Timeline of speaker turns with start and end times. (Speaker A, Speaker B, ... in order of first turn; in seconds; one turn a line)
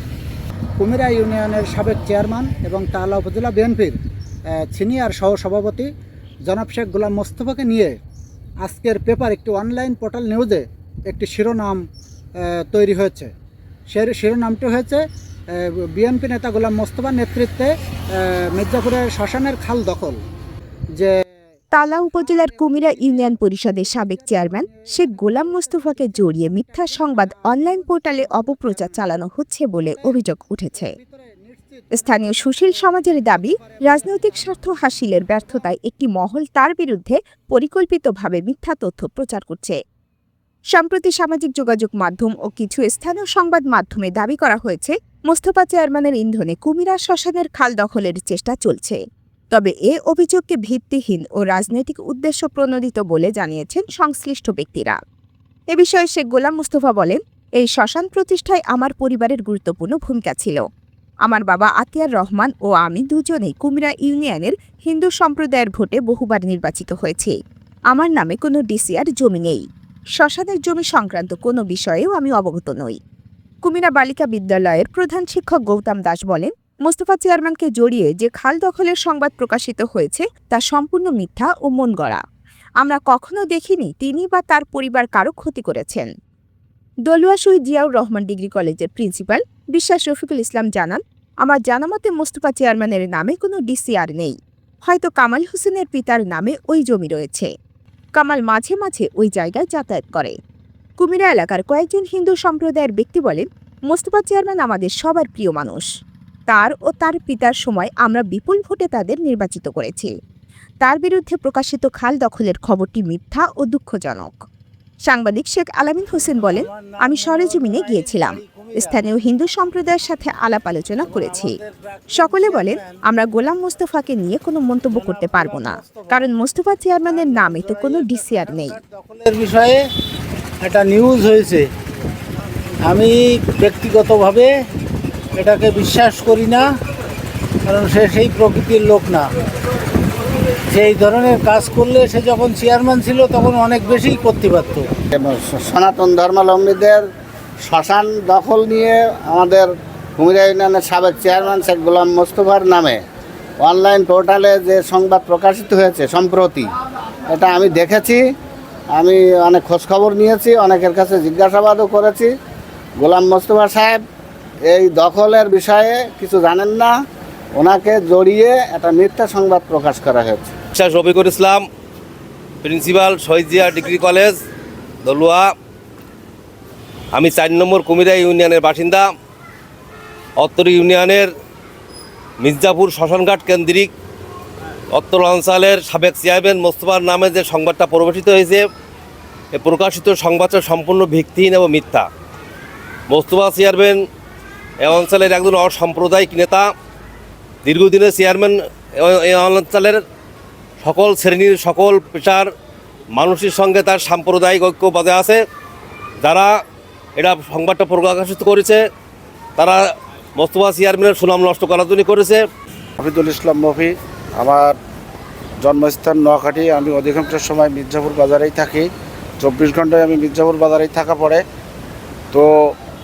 Speaker A: 0.8-4.0
Speaker A: 4.7-5.9
Speaker A: 6.5-7.9
Speaker A: 8.6-11.8
Speaker A: 12.7-13.3
Speaker A: 13.9-15.0
Speaker A: 15.6-17.7
Speaker A: 18.6-20.2
Speaker B: 21.7-30.9
Speaker A: 31.0-31.7
Speaker B: 31.9-39.8
Speaker B: 40.7-49.0
Speaker B: 49.5-55.0
Speaker B: 55.7-60.6
Speaker B: 61.2-67.3
Speaker B: 67.9-69.7
Speaker B: 70.2-73.0
Speaker B: 73.6-82.2
Speaker B: 82.8-86.1
Speaker B: 87.1-97.5
Speaker B: 98.1-100.3
Speaker B: 101.0-105.9
Speaker B: 106.5-110.1
Speaker B: 110.8-114.4
Speaker B: 115.0-121.6
Speaker C: 116.4-119.0
Speaker C: 121.0-123.0
Speaker B: 122.1-128.8
Speaker C: 124.9-126.1
Speaker C: 127.3-129.8
Speaker C: 130.6-131.7
Speaker C: 132.8-134.5
Speaker C: 135.4-136.7
Speaker C: 137.7-139.3
Speaker C: 140.7-144.9
Speaker D: 145.1-147.0
Speaker D: 147.6-153.0
Speaker D: 153.6-156.7
Speaker D: 157.3-158.2
Speaker D: 158.9-162.3
Speaker D: 163.0-164.0
Speaker D: 164.7-166.9
Speaker D: 167.6-170.5
Speaker E: 170.7-171.6
Speaker E: 172.6-174.3
Speaker E: 175.0-175.5
Speaker E: 177.1-179.1
Speaker E: 180.4-181.3
Speaker E: 182.4-183.9
Speaker E: 184.9-188.6
Speaker E: 189.5-192.1
Speaker E: 193.1-194.0
Speaker E: 194.8-196.7
Speaker E: 197.6-200.0
Speaker E: 200.8-202.5
Speaker E: 203.1-205.4
Speaker E: 206.2-206.6
Speaker E: 207.2-208.8
Speaker E: 209.6-209.8
Speaker E: 210.4-212.4
Speaker F: 213.0-214.8
Speaker F: 215.6-218.9
Speaker F: 219.4-221.4